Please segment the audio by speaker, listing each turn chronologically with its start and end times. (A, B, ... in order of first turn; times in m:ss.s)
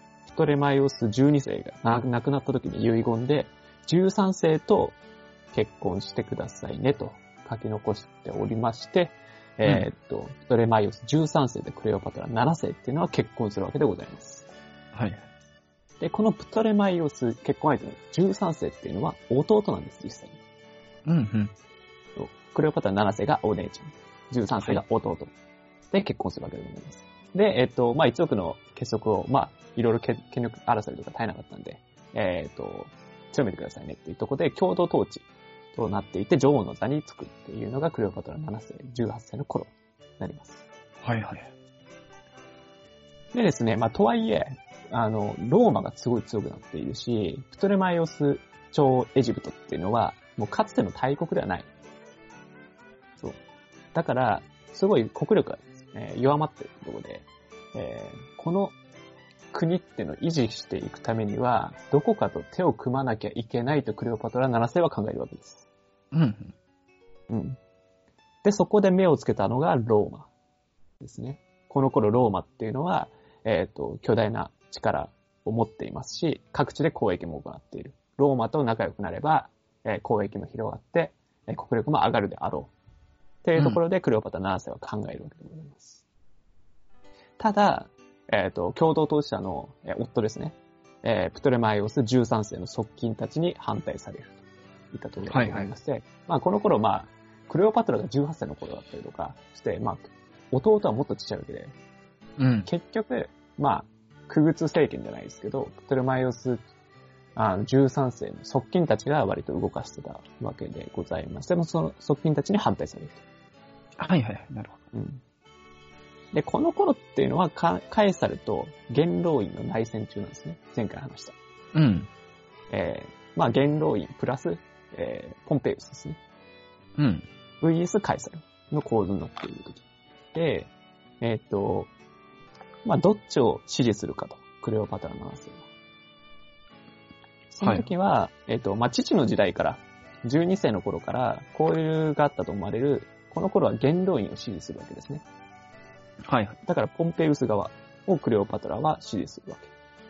0:00.3-0:05.0 A
0:05.5-0:14.5 A
0:14.9-0:15.3 B
0:16.0-0:20.4 A
0:21.0-0:21.5 B
0:22.2-0:25.3 A
0:25.9-0:40.6 A
0:41.0-0:41.5 B
0:43.3-0:51.7 A
0:53.9-0:58.7 A
0:59.5-1:05.7 A
1:06.1-1:06.5 B
1:07.3-1:07.6 A
1:08.4-1:10.3 A
1:11.0-1:22.7 A
1:23.4-1:26.0 A
1:27.4-1:41.8 A
1:35.3-1:35.7 B
1:42.4-1:42.7 B
1:42.6-1:46.6 A
1:47.4-1:53.2 A
1:54.0-1:54.8 B
1:54.9-1:55.2 A
1:56.3-2:01.3 A
2:01.7-2:02.1 B
2:02.7-2:06.2 A
2:07.0-2:07.2 B
2:07.6-2:11.9 A
2:12.8-2:15.6 A
2:17.5-2:25.2 A
2:17.6-2:17.9 B
2:26.2-2:26.6 B
2:26.6-2:29.7 A